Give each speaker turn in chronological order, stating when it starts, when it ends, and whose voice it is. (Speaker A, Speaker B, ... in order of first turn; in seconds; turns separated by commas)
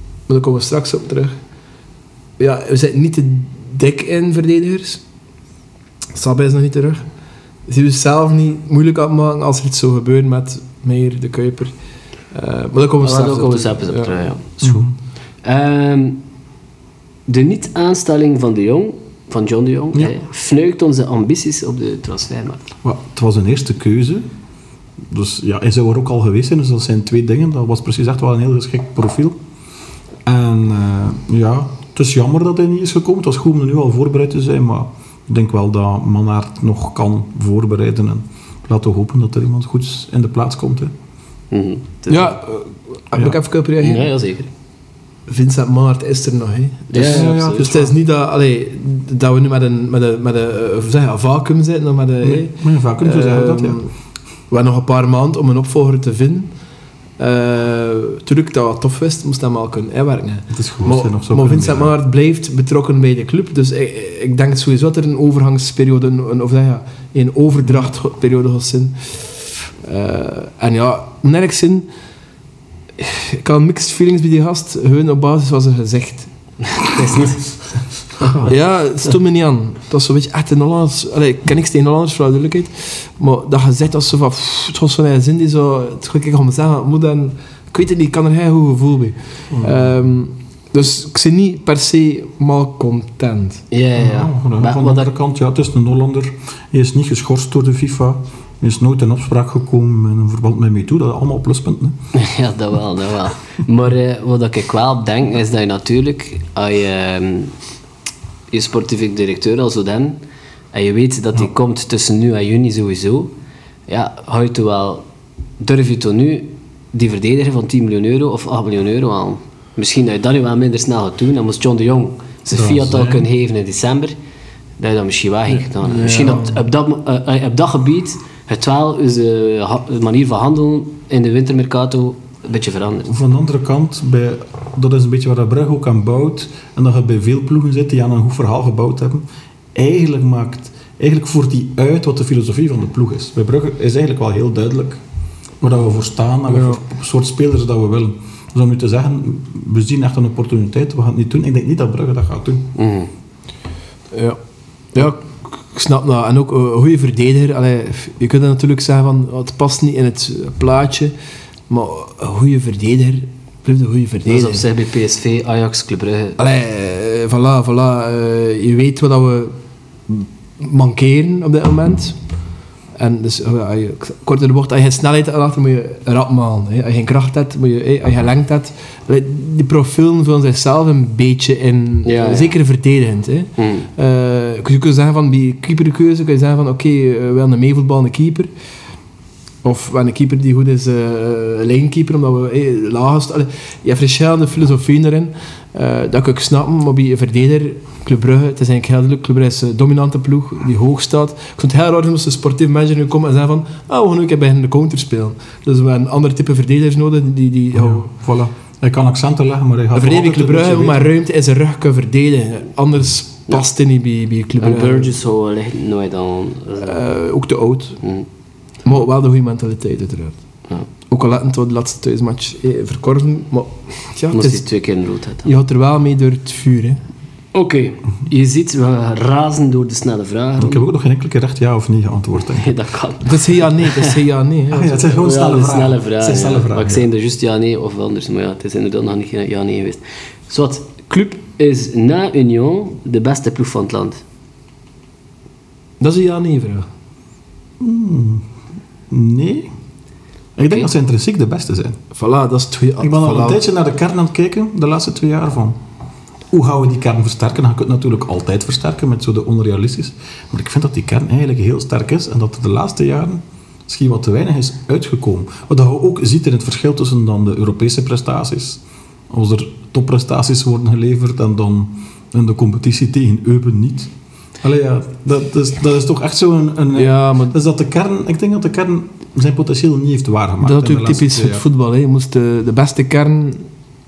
Speaker A: 0.3-1.4, Speaker A: 2.4-5.0, Speaker A: 6.1-7.0, Speaker A: 7.7-11.8, Speaker A: 12.3-14.2, Speaker B: 13.0-14.8, Speaker C: 14.6-14.9, Speaker B: 15.4-16.2, Speaker B: 17.3-22.7, Speaker C: 22.8-24.3, Speaker C: 25.0-29.4, Speaker C: 30.2-40.9, Speaker B: 41.5-42.4, Speaker A: 42.1-44.1, Speaker B: 43.8-44.5, Speaker A: 45.3-53.9, Speaker B: 46.9-47.7, Speaker C: 47.0-47.9, Speaker C: 52.2-53.8, Speaker A: 54.5-56.5, Speaker A: 57.2-69.3, Speaker C: 60.5-61.9, Speaker A: 69.8-71.9, Speaker A: 73.0-76.3, Speaker B: 76.7-77.6, Speaker C: 78.2-78.5, Speaker A: 78.5-93.6, Speaker B: 93.7-95.1, Speaker C: 94.0-102.0, Speaker B: 102.1-107.5, Speaker B: 108.5-110.2, Speaker B: 110.7-113.3, Speaker B: 113.9-115.0, Speaker B: 115.6-124.1, Speaker C: 122.5-123.3, Speaker B: 124.8-133.1, Speaker A: 125.5-126.6, Speaker C: 133.1-139.2, Speaker C: 139.7-145.0, Speaker C: 145.6-152.7, Speaker A: 146.5-146.8, Speaker B: 152.8-153.1, Speaker A: 154.1-154.4, Speaker A: 154.9-161.1, Speaker A: 161.7-164.6, Speaker B: 164.3-166.4, Speaker A: 166.4-169.6, Speaker A: 170.1-172.2, Speaker A: 173.0-188.5, Speaker B: 182.1-182.6, Speaker B: 183.6-183.9, Speaker A: 189.6-208.1, Speaker C: 207.7-211.1, Speaker A: 209.9-215.1, Speaker B: 214.6-217.0, Speaker A: 216.8-218.0, Speaker A: 218.8-220.4, Speaker A: 221.1-224.6, Speaker B: 224.3-225.5, Speaker A: 225.4-227.0, Speaker B: 227.5-230.8, Speaker C: 230.6-232.7, Speaker B: 232.4-234.1, Speaker A: 233.2-235.2, Speaker C: 234.7-237.1, Speaker B: 235.1-244.2, Speaker A: 246.0-246.9, Speaker C: 247.8-248.4, Speaker C: 249.1-249.7, Speaker C: 250.6-252.0, Speaker A: 252.1-253.6, Speaker C: 253.0-255.8, Speaker C: 256.5-274.1, Speaker C: 274.6-281.6, Speaker A: 276.9-277.6, Speaker A: 280.6-283.7